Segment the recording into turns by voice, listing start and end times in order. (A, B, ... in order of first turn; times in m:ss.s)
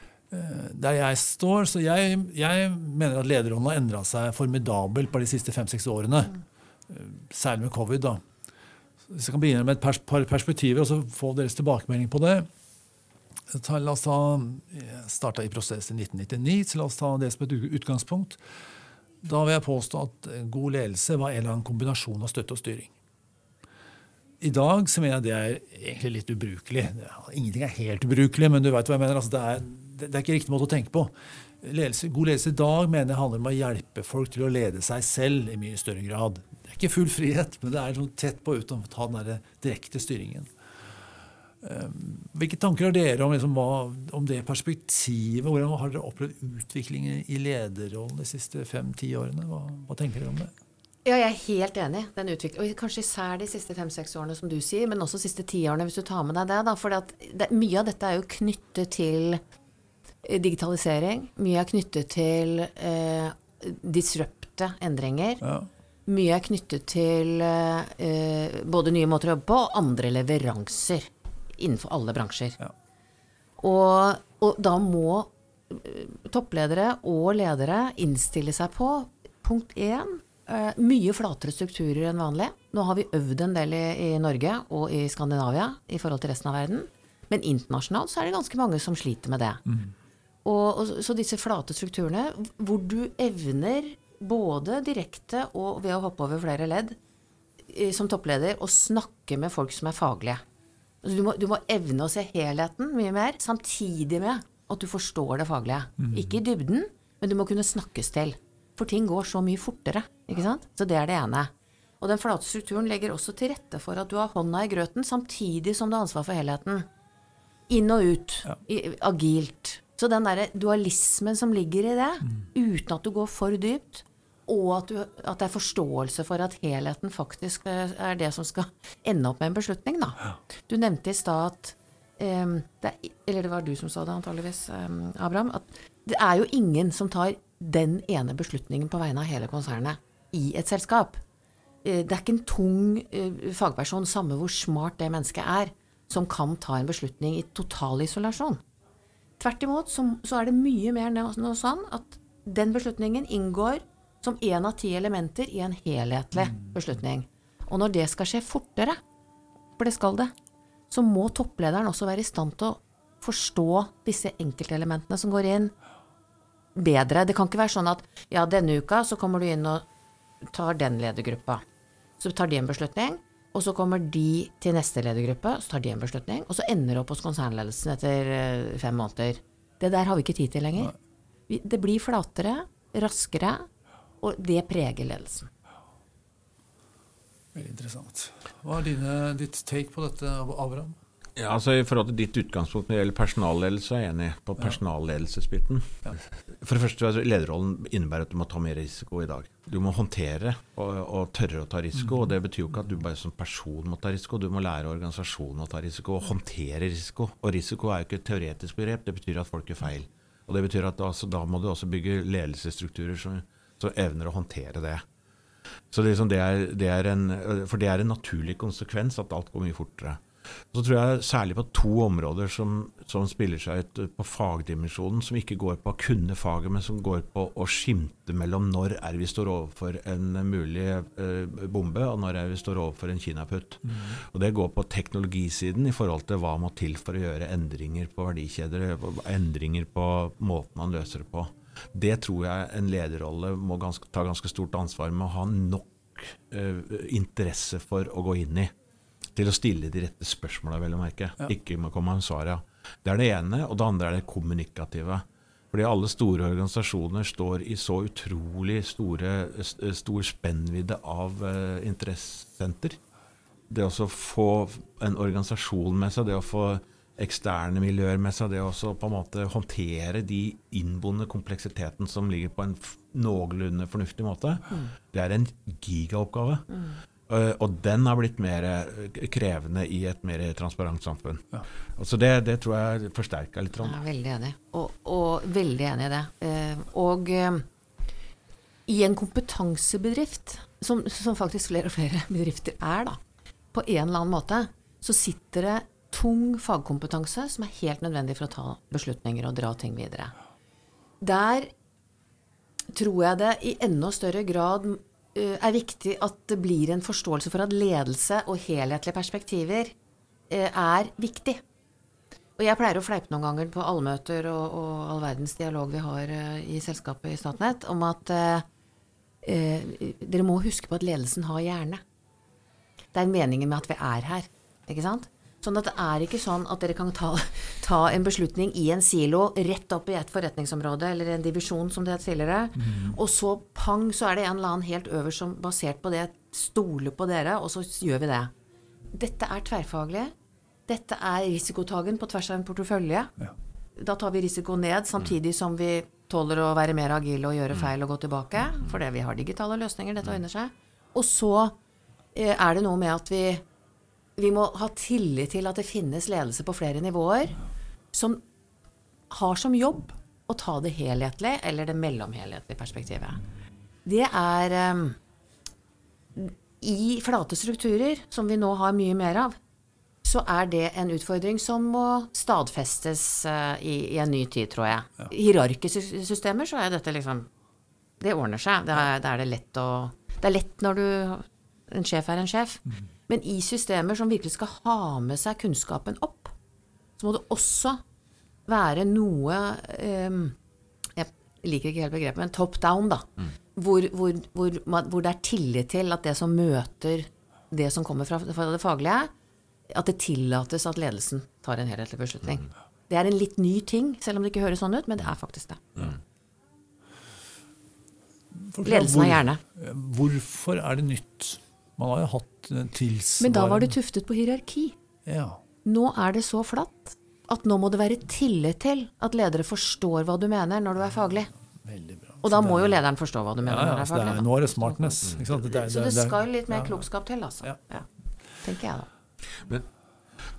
0:00.3-0:08.2 A
0:09.1-0:12.5 A
0:13.5-0:18.4 A
0:19.2-0:22.9 A
0:24.4-0:40.5 A
0:41.6-0:50.5 A
0:51.0-0:59.4 B
1:00.2-1:05.4 B
1:05.4-1:05.7 A
1:06.1-1:12.6 B
1:13.6-1:29.6 B
1:30.4-1:37.0 B
1:37.7-1:40.4 B
1:41.0-1:56.9 B
1:46.0-1:46.4 A
1:57.7-2:21.2 B
2:21.8-2:28.6 B
2:29.4-2:39.0 B
2:39.8-2:40.3 B
2:40.9-2:45.7 B
2:46.8-2:49.8 B
2:50.5-2:51.6 B
2:52.2-3:00.9 B
3:01.5-3:03.7 B
3:04.2-3:05.5 B
3:07.5-3:11.0 A
3:11.4-3:35.0 C
3:35.9-3:40.2 C
3:40.7-4:08.7 C
4:09.4-4:23.0 C
4:23.7-4:36.7 C
4:36.7-4:37.0 B
4:37.3-4:44.0 C
4:43.8-4:47.7 B
4:48.9-4:53.2 B
4:53.7-5:00.3 B
5:01.2-5:01.7 B
5:02.9-5:09.9 B
5:10.5-5:11.6 B
5:12.6-5:18.6 B
5:19.4-5:22.0 B
5:23.1-5:38.5 B
5:39.1-5:40.3 B
5:40.9-5:43.3 B
5:44.0-5:51.8 B
5:52.3-5:53.6 B
5:54.4-5:57.6 B
5:58.1-5:58.4 B
5:59.3-6:03.4 B
6:04.0-6:05.2 B
6:06.4-6:09.6 B
6:10.2-6:17.5 B
6:18.2-6:26.5 B
6:27.2-6:28.0 B
6:28.7-6:30.6 B
6:31.2-6:39.3 B
6:39.9-6:46.1 B
6:48.5-6:54.0 A
6:48.8-6:49.6 B
6:53.4-6:55.0 B
6:55.3-6:55.6 A
6:55.8-7:01.5 B
7:01.8-7:03.0 A
7:02.4-7:08.1 B
7:03.6-7:07.0 A
7:08.6-7:09.1 B